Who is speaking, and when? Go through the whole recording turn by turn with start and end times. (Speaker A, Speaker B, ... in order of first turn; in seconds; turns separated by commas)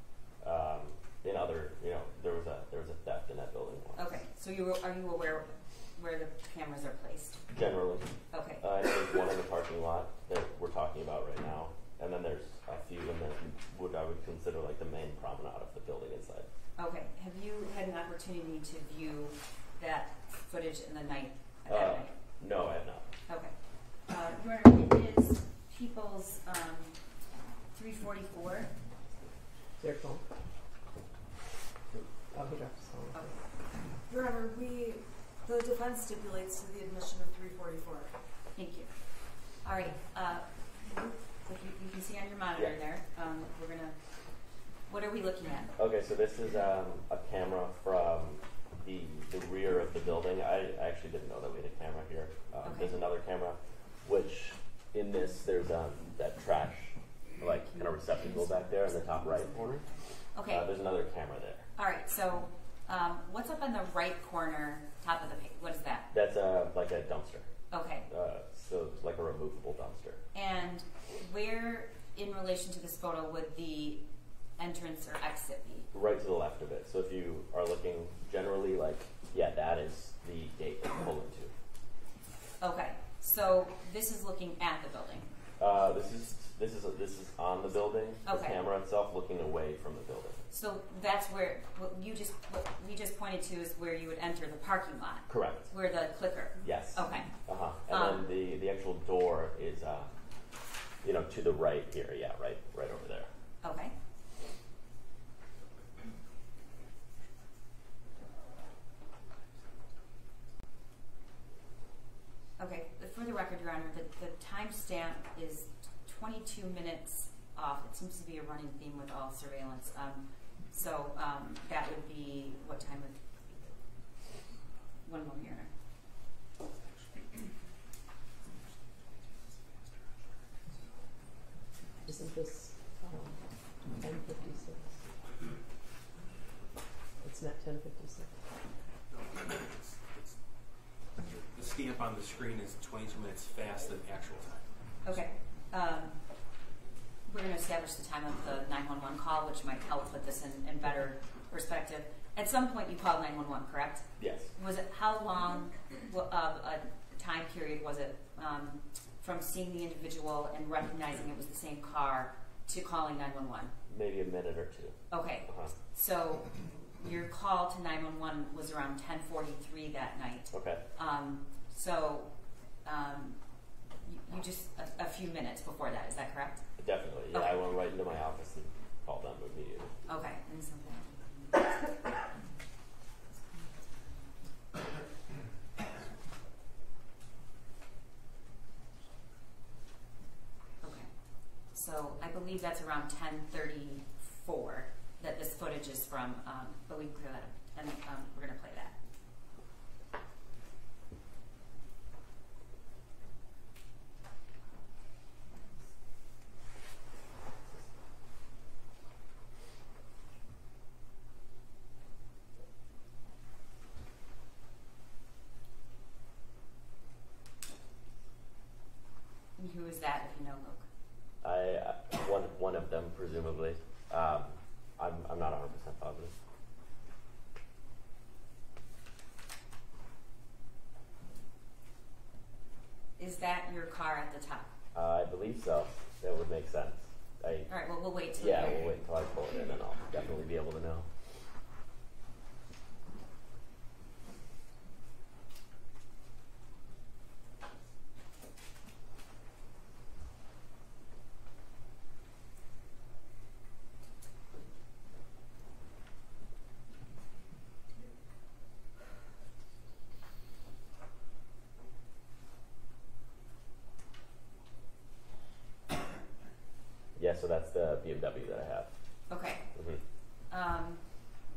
Speaker A: 0.4-4.1, Speaker B: 4.0-7.4, Speaker A: 7.5-8.1, Speaker B: 8.3-8.6, Speaker A: 8.6-16.5, Speaker B: 16.8-22.1, Speaker A: 21.7-23.1, Speaker B: 23.3-23.6, Speaker B: 24.1-27.0, Speaker B: 27.7-28.7, Speaker C: 29.8-30.2, Speaker C: 32.3-33.4, Speaker D: 34.1-38.1, Speaker B: 38.6-38.9, Speaker B: 39.6-44.0, Speaker B: 44.9-45.7, Speaker A: 45.8-59.9, Speaker B: 52.6-53.0, Speaker B: 59.8-60.7, Speaker A: 60.5-61.7, Speaker B: 61.8-66.1, Speaker A: 66.1-67.5, Speaker B: 67.7-68.1, Speaker A: 68.1-70.2, Speaker B: 70.3-74.0, Speaker B: 74.6-75.9, Speaker A: 75.9-81.5, Speaker B: 82.6-85.3, Speaker A: 85.6-90.5, Speaker B: 88.2-88.6, Speaker B: 90.5-97.3, Speaker A: 95.3-95.7, Speaker A: 96.6-100.1, Speaker B: 97.9-98.2, Speaker A: 101.0-103.3, Speaker B: 103.6-103.9, Speaker B: 112.6-123.2, Speaker B: 125.0-125.7, Speaker E: 129.5-130.0, Speaker C: 132.0-133.4, Speaker C: 134.0-135.0, Speaker C: 137.2-138.4, Speaker E: 139.1-140.4, Speaker E: 141.2-144.7, Speaker B: 145.0-146.2, Speaker B: 147.2-163.7, Speaker A: 154.2-154.5, Speaker A: 163.9-165.0, Speaker B: 165.1-172.3, Speaker A: 165.5-165.7, Speaker A: 170.5-170.8, Speaker B: 172.8-173.4, Speaker B: 174.0-176.6, Speaker A: 176.8-179.9, Speaker B: 177.3-177.6, Speaker B: 180.1-181.9, Speaker B: 190.8-191.1, Speaker B: 191.7-198.9, Speaker B: 219.6-220.9, Speaker A: 221.4-226.4, Speaker B: 233.2-234.7, Speaker A: 234.9-237.7, Speaker B: 237.7-238.9, Speaker A: 238.4-241.1, Speaker A: 267.2-268.9, Speaker B: 269.3-269.7, Speaker A: 269.8-270.0, Speaker B: 270.5-271.0